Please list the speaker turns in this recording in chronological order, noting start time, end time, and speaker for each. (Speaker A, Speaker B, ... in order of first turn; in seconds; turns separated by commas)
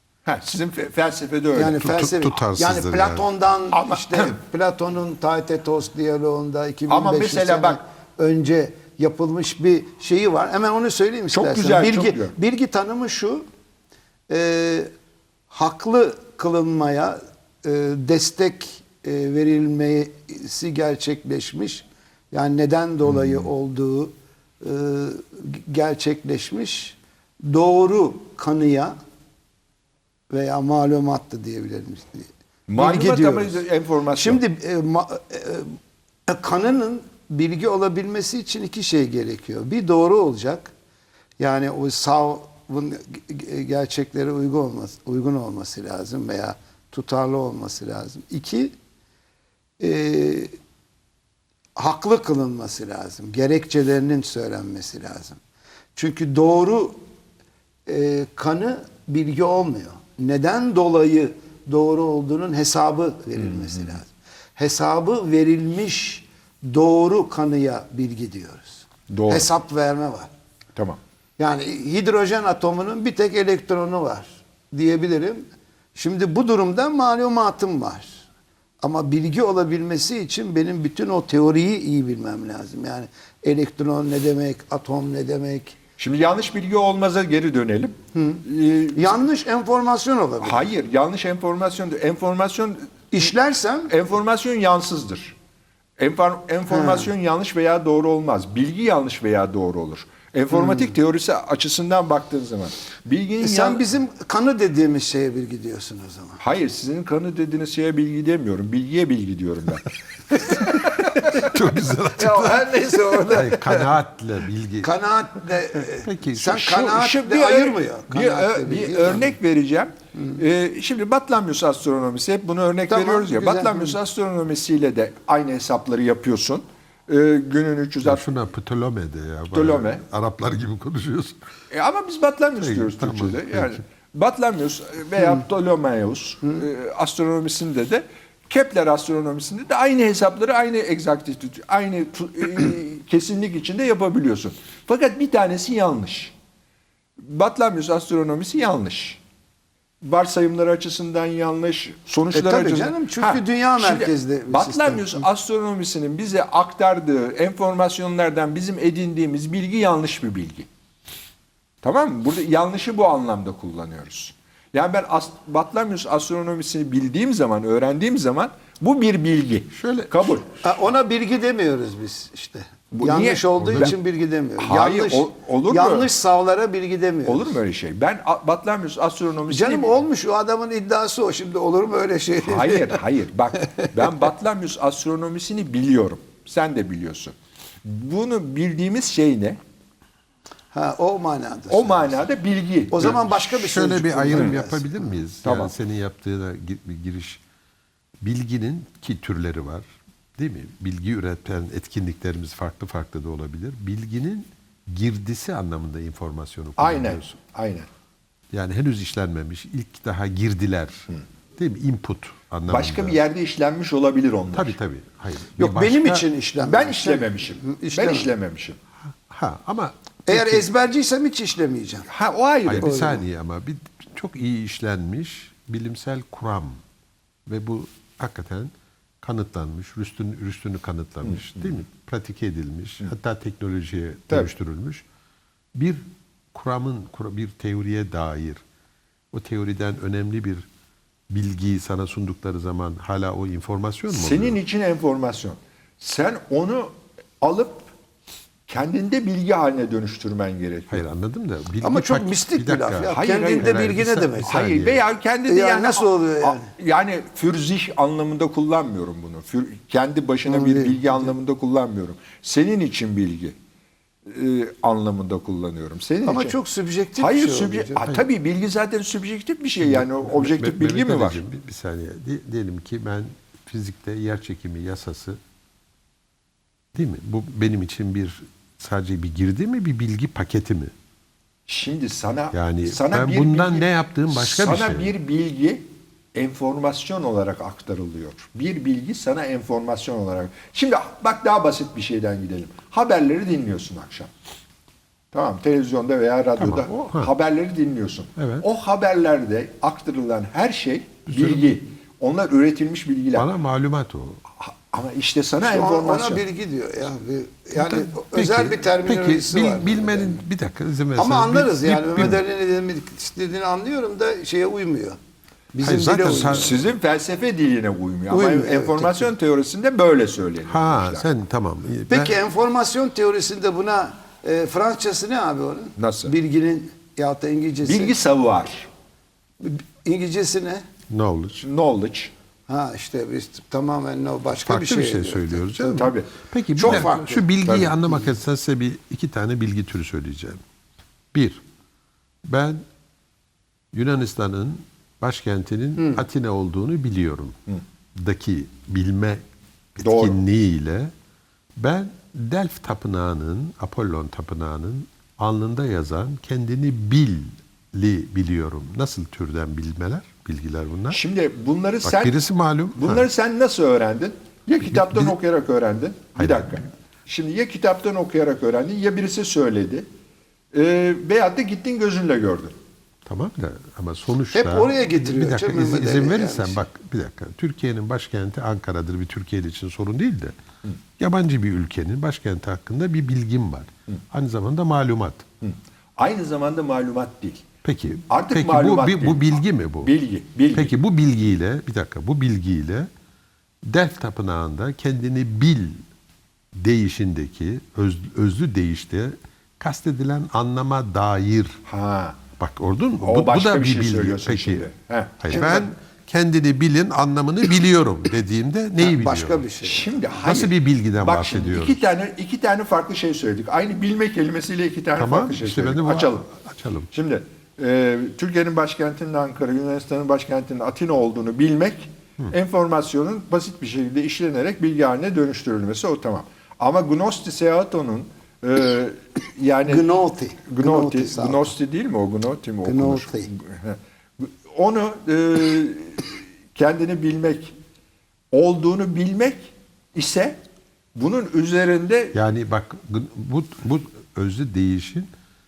Speaker A: 0.2-1.9, Speaker B: 1.5-13.5, Speaker C: 1.7-3.3, Speaker A: 3.7-4.4, Speaker A: 6.9-7.8, Speaker A: 11.3-12.3, Speaker B: 14.3-14.9, Speaker B: 15.5-29.0, Speaker A: 23.1-23.5, Speaker B: 30.3-33.6, Speaker A: 32.7-34.4, Speaker B: 34.1-40.7, Speaker B: 41.4-48.8, Speaker B: 49.8-50.5, Speaker B: 51.8-55.4, Speaker B: 56.0-57.0, Speaker B: 57.9-70.3, Speaker A: 63.4-64.0, Speaker A: 69.1-69.5, Speaker B: 71.4-78.2, Speaker B: 78.8-85.8, Speaker A: 86.0-89.3, Speaker B: 88.2-90.7, Speaker A: 90.4-92.9, Speaker B: 93.1-93.9, Speaker A: 93.9-95.3, Speaker A: 96.0-103.8, Speaker B: 96.7-97.1, Speaker B: 100.5-101.0, Speaker B: 103.4-106.4, Speaker A: 106.4-111.2, Speaker C: 111.0-112.7, Speaker B: 112.2-113.8, Speaker C: 113.3-115.0, Speaker B: 114.8-119.3, Speaker C: 115.9-116.7, Speaker A: 116.6-128.2, Speaker B: 122.9-124.0, Speaker C: 128.0-131.4, Speaker A: 129.5-130.0, Speaker A: 131.7-146.3, Speaker C: 132.6-133.8, Speaker A: 147.2-149.2, Speaker A: 150.0-160.7, Speaker B: 152.3-155.2, Speaker A: 161.8-170.5, Speaker C: 169.7-170.4, Speaker B: 170.6-177.6, Speaker A: 172.9-174.0, Speaker C: 173.6-173.9, Speaker A: 174.6-176.1, Speaker A: 177.3-179.9, Speaker B: 179.5-183.0, Speaker A: 182.4-189.6, Speaker B: 183.7-184.0, Speaker B: 190.7-192.2, Speaker A: 191.7-193.2, Speaker B: 192.9-195.1, Speaker C: 193.2-197.4, Speaker A: 195.4-195.7, Speaker C: 198.2-199.9, Speaker C: 200.4-207.4, Speaker A: 206.8-207.9, Speaker C: 208.5-213.2, Speaker A: 212.7-214.8, Speaker C: 214.5-216.3, Speaker B: 215.6-218.3, Speaker A: 216.6-218.8, Speaker C: 219.1-220.7, Speaker B: 220.3-222.1, Speaker A: 222.1-223.1, Speaker C: 222.7-226.8, Speaker B: 222.8-223.2, Speaker C: 227.5-235.1, Speaker A: 231.2-231.7, Speaker C: 235.7-238.6, Speaker C: 239.3-240.7, Speaker C: 241.3-244.6, Speaker A: 244.1-247.9, Speaker A: 248.7-251.1, Speaker C: 250.9-255.0, Speaker B: 251.8-254.6, Speaker A: 253.1-253.8, Speaker A: 254.4-263.6, Speaker B: 255.5-256.7, Speaker B: 260.5-261.3, Speaker A: 264.3-266.6, Speaker B: 266.2-268.1, Speaker A: 267.2-271.4, Speaker C: 269.8-275.4, Speaker C: 276.9-280.9, Speaker A: 281.7-294.3, Speaker C: 282.5-285.1, Speaker A: 295.3-303.5, Speaker C: 296.6-297.3, Speaker C: 298.4-298.7, Speaker C: 301.3-301.8, Speaker C: 303.4-304.4, Speaker A: 304.6-306.4, Speaker B: 305.6-310.4, Speaker C: 307.8-312.4, Speaker B: 311.2-315.2, Speaker B: 315.7-316.8, Speaker C: 315.8-316.9, Speaker A: 316.4-321.3, Speaker B: 318.3-319.3, Speaker C: 320.7-322.4, Speaker B: 322.1-328.1, Speaker A: 326.0-326.3, Speaker A: 327.9-328.9, Speaker B: 329.6-330.9, Speaker C: 331.1-331.6, Speaker A: 331.6-332.3, Speaker B: 332.7-336.1, Speaker C: 334.6-340.6, Speaker A: 335.9-336.3, Speaker B: 336.8-337.5, Speaker A: 337.6-338.0, Speaker C: 341.3-341.6, Speaker C: 342.5-342.8, Speaker C: 343.9-347.6, Speaker B: 346.0-346.2, Speaker C: 348.1-349.4, Speaker C: 349.9-351.1, Speaker A: 350.0-350.4, Speaker C: 351.8-361.2, Speaker A: 361.1-362.4, Speaker C: 362.0-363.3, Speaker A: 363.0-370.1, Speaker C: 364.8-365.4, Speaker C: 366.4-366.8, Speaker A: 370.7-372.8, Speaker C: 373.3-380.6, Speaker B: 374.5-376.8, Speaker C: 381.2-385.5, Speaker A: 385.6-387.6, Speaker C: 387.9-390.1, Speaker A: 388.3-390.9, Speaker C: 390.7-393.1, Speaker C: 393.8-396.0, Speaker C: 396.8-401.8, Speaker A: 401.9-402.4, Speaker C: 402.6-404.9, Speaker A: 403.2-405.9, Speaker C: 405.4-409.6, Speaker B: 409.0-410.1, Speaker A: 409.8-416.4, Speaker C: 410.4-412.0, Speaker C: 415.2-417.1, Speaker A: 417.1-430.1, Speaker B: 429.9-431.7, Speaker A: 430.7-437.7, Speaker B: 432.8-433.5, Speaker A: 438.5-440.6, Speaker A: 441.2-442.4, Speaker C: 442.3-445.3